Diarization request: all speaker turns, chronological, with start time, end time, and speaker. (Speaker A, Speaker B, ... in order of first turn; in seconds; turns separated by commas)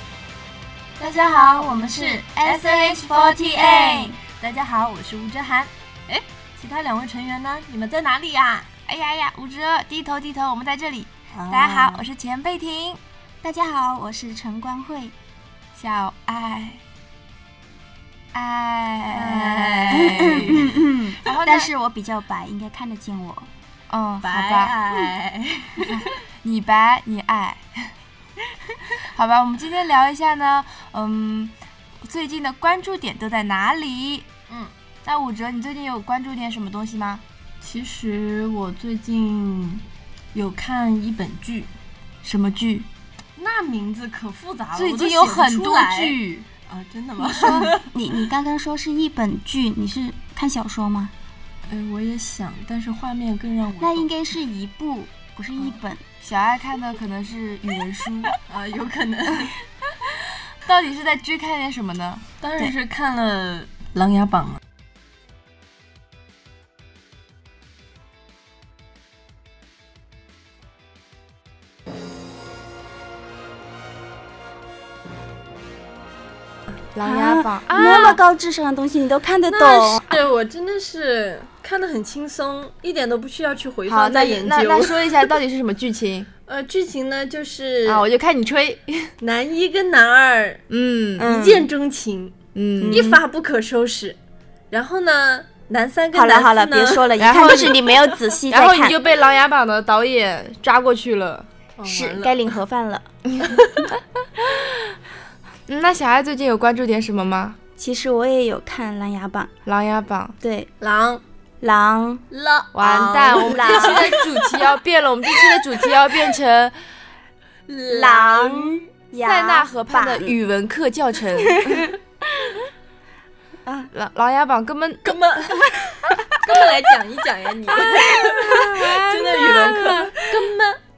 Speaker A: 1.0-8.7, Speaker B: 1.1-4.2, Speaker B: 8.8-13.0, Speaker A: 11.3-12.1, Speaker C: 13.4-15.1, Speaker B: 15.7-16.8, Speaker B: 18.3-21.7, Speaker A: 19.1-20.7, Speaker C: 19.9-23.5, Speaker B: 23.9-24.9, Speaker A: 24.2-26.1, Speaker B: 25.9-27.9, Speaker B: 29.1-34.3, Speaker B: 35.0-37.2, Speaker A: 37.6-41.7, Speaker B: 42.2-42.9, Speaker A: 43.4-47.9, Speaker B: 44.7-46.5, Speaker C: 47.2-51.1, Speaker B: 47.4-47.7, Speaker A: 51.7-54.1, Speaker C: 53.8-56.0, Speaker B: 56.2-58.4, Speaker A: 58.5-59.6, Speaker B: 60.6-62.2, Speaker A: 62.4-64.6, Speaker B: 76.9-78.2, Speaker C: 77.0-80.0, Speaker A: 77.7-78.2, Speaker A: 79.5-85.3, Speaker B: 83.9-86.3, Speaker A: 86.5-88.1, Speaker B: 87.8-89.1, Speaker A: 89.2-90.6, Speaker B: 90.7-91.6, Speaker A: 91.2-92.3, Speaker B: 92.5-93.2, Speaker C: 92.8-93.2, Speaker A: 92.8-94.2, Speaker A: 94.7-98.0, Speaker C: 96.1-99.0, Speaker B: 97.2-97.8, Speaker B: 98.5-101.5, Speaker A: 101.8-102.5, Speaker C: 101.8-103.1, Speaker B: 105.7-107.6, Speaker C: 107.8-109.5, Speaker B: 109.6-110.3, Speaker C: 110.4-110.7, Speaker A: 110.8-111.2, Speaker C: 111.6-112.2, Speaker A: 112.3-114.8, Speaker B: 112.7-116.8, Speaker C: 113.3-114.1, Speaker A: 115.4-115.6, Speaker A: 117.7-118.9, Speaker C: 117.9-120.3, Speaker B: 119.2-121.9, Speaker C: 121.5-121.9, Speaker C: 123.6-123.9, Speaker B: 123.9-125.2, Speaker A: 125.0-130.8, Speaker B: 127.9-130.1